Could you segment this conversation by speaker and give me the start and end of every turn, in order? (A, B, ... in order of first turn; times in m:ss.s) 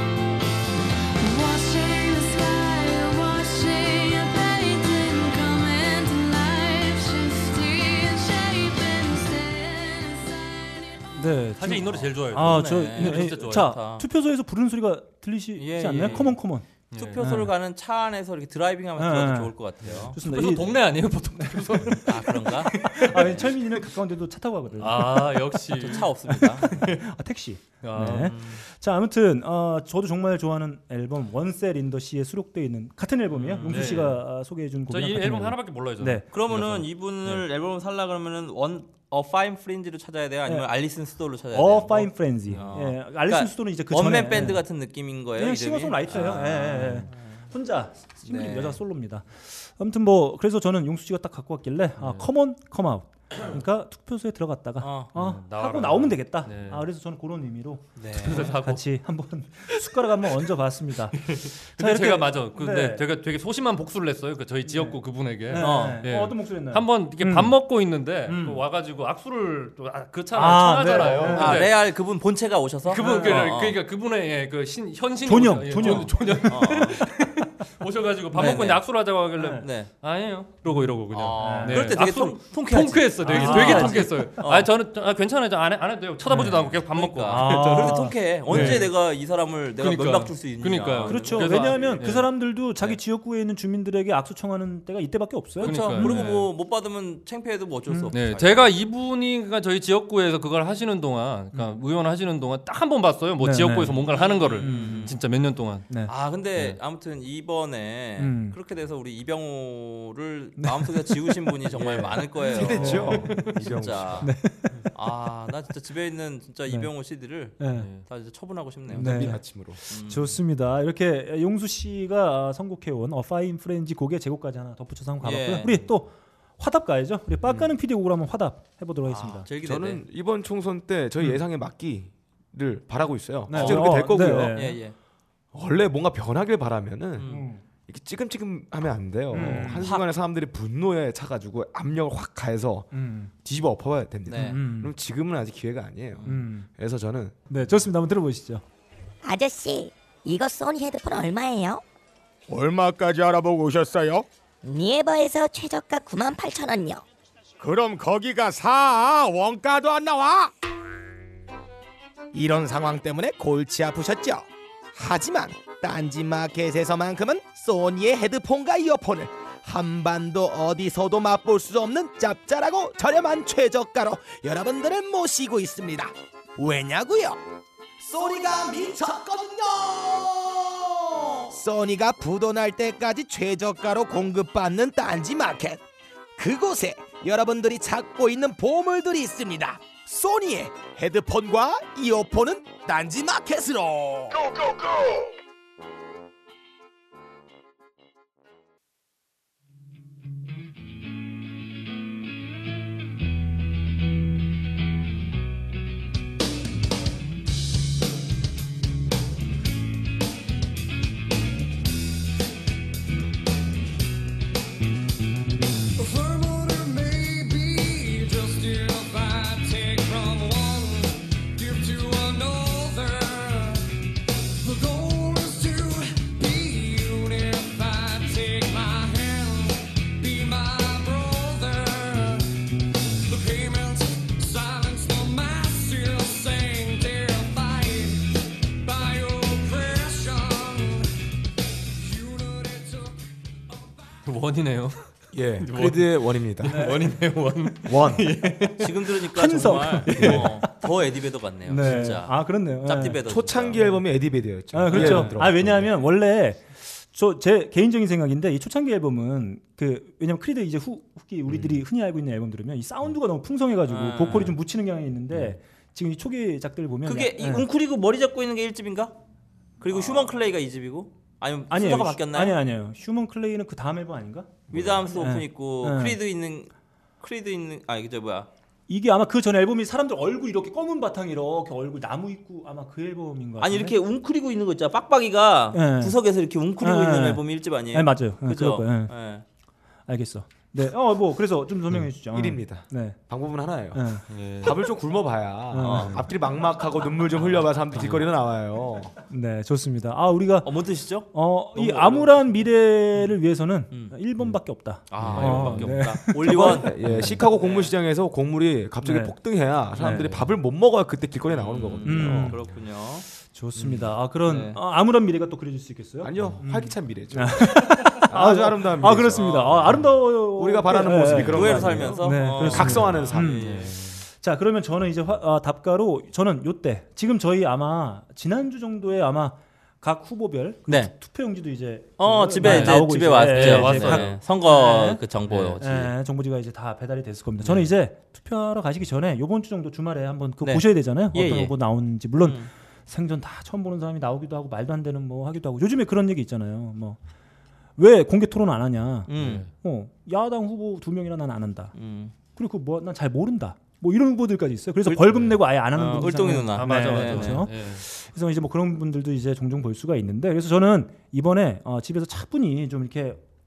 0:01.2-0:11.2 A
0:11.2-0:17.5 B
0:11.5-0:13.8 C
0:12.4-0:14.0 D
0:15.6-0:16.4 D
0:16.9-0:17.2 C
0:16.9-0:20.2 D
0:19.0-0:19.6 B
0:19.8-0:23.4 C
0:20.1-0:20.8 B
0:21.4-0:36.2 B
0:22.0-0:23.5 D
0:24.8-0:27.0 C
0:25.7-0:26.9 D
0:27.8-0:28.4 C
0:28.0-0:28.6 D
0:33.3-0:34.1 D
0:33.6-0:34.2 C
0:34.9-0:37.4 C
0:36.3-0:47.4 D
0:41.5-0:44.6 B
0:45.4-1:03.1 B
0:48.3-0:48.8 D
0:52.0-0:52.3 C
0:54.8-0:55.1 D
0:55.1-0:56.9 C
0:58.0-0:58.6 D
0:58.1-0:58.8 C
1:01.2-1:11.8 C
1:04.7-1:07.6 B
1:05.6-1:06.0 D
1:08.3-1:08.6 B
1:10.3-1:11.7 B
1:11.3-1:13.8 D
1:12.9-1:28.9 C
1:13.0-1:13.6 B
1:15.2-1:17.0 B
1:15.8-1:17.0 D
1:18.4-1:18.9 D
1:19.4-1:19.6 B
1:19.6-1:19.9 D
1:20.7-1:22.0 B
1:21.1-1:24.7 D
1:23.2-1:24.3 B
1:26.3-1:28.9 B
1:26.7-1:32.1 D
1:29.8-1:32.3 C
1:31.0-1:36.3 B
1:35.6-1:38.7 D
1:35.6-1:36.5 C
1:38.1-1:45.9 C
1:43.4-1:44.0 B
1:44.1-1:45.2 D
1:44.6-1:45.1 B
1:46.1-1:54.3 D
1:48.2-1:48.6 B
1:50.6-1:52.0 B
1:52.5-1:54.3 E
1:52.7-1:53.4 B
1:52.9-1:53.5 C
1:54.2-1:54.9 B
1:54.9-2:00.4 D
1:57.6-1:57.9 B
1:57.8-1:58.0 C
1:58.9-1:59.8 E
1:59.0-2:09.5 B
2:05.2-2:05.8 D
2:09.1-2:10.0 D
2:09.6-2:14.6 E
2:13.5-2:14.8 B
2:13.5-2:15.0 D
2:15.5-2:22.9 E
2:17.2-2:17.4 D
2:17.2-2:17.6 B
2:19.3-2:19.9 B
2:19.4-2:20.1 D
2:22.9-2:23.3 B
2:23.4-2:27.4 E
2:24.3-2:24.6 D
2:24.4-2:25.0 B
2:26.2-2:26.7 B
2:27.5-2:28.6 B
2:29.2-2:31.8 F
2:32.5-2:34.3 G
2:34.6-2:37.0 F
2:37.6-2:40.5 G
2:42.3-2:57.4 G
2:58.0-3:05.8 G
3:06.4-3:14.8 G
3:36.0-3:43.9 H
3:44.6-3:52.5 H
3:53.3-4:01.1 H
4:02.0-4:04.0 H
4:04.2-4:08.9 C
4:05.3-4:06.8 E
4:06.6-4:07.1 B
4:07.9-4:08.3 E
4:08.8-4:14.0 D
4:09.1-4:10.9 B
4:10.1-4:10.5 C
4:11.7-4:13.2 B
4:13.2-4:15.9 E
4:14.7-4:27.7 B
4:14.9-4:15.3 D
4:23.9-4:24.6 D
4:27.0-4:29.2 D
4:29.8-4:32.6 D
4:30.0-4:30.2 B
4:31.7-4:36.2 B
4:34.7-4:38.5 D
4:38.9-4:43.9 B
4:43.6-4:49.4 D
4:45.7-4:46.2 B
4:46.8-4:49.1 B
4:50.1-4:53.2 B
4:52.3-4:59.1 E
4:53.9-4:54.2 B
4:54.3-4:54.8 C
4:55.7-4:56.2 B
4:55.8-4:56.2 D
4:59.3-5:07.4 B
5:00.6-5:02.6 D
5:03.9-5:04.2 D
5:05.1-5:07.9 D
5:05.2-5:05.9 C
5:05.4-5:12.6 E
5:09.0-5:09.4 B
5:10.0-5:10.5 B
5:11.5-5:13.3 D
5:12.0-5:12.6 B
5:13.4-5:23.7 B
5:14.5-5:14.8 D
5:16.2-5:23.8 E
5:19.3-5:19.9 D
5:21.2-5:24.0 D
5:23.1-5:24.2 C
5:24.3-5:35.2 B
5:30.9-5:31.1 D
5:32.2-5:36.1 D
5:32.6-5:34.3 C
5:35.5-5:35.8 C
5:35.8-5:47.2 B
5:37.6-5:37.9 D
5:40.6-5:41.8 D
5:42.4-5:42.7 D
5:48.0-5:51.9 B
5:49.3-5:49.7 D
5:49.4-5:49.7 C
5:52.0-5:52.3 D
5:52.6-6:03.4 B
5:55.1-5:57.7 D
5:56.8-5:58.0 C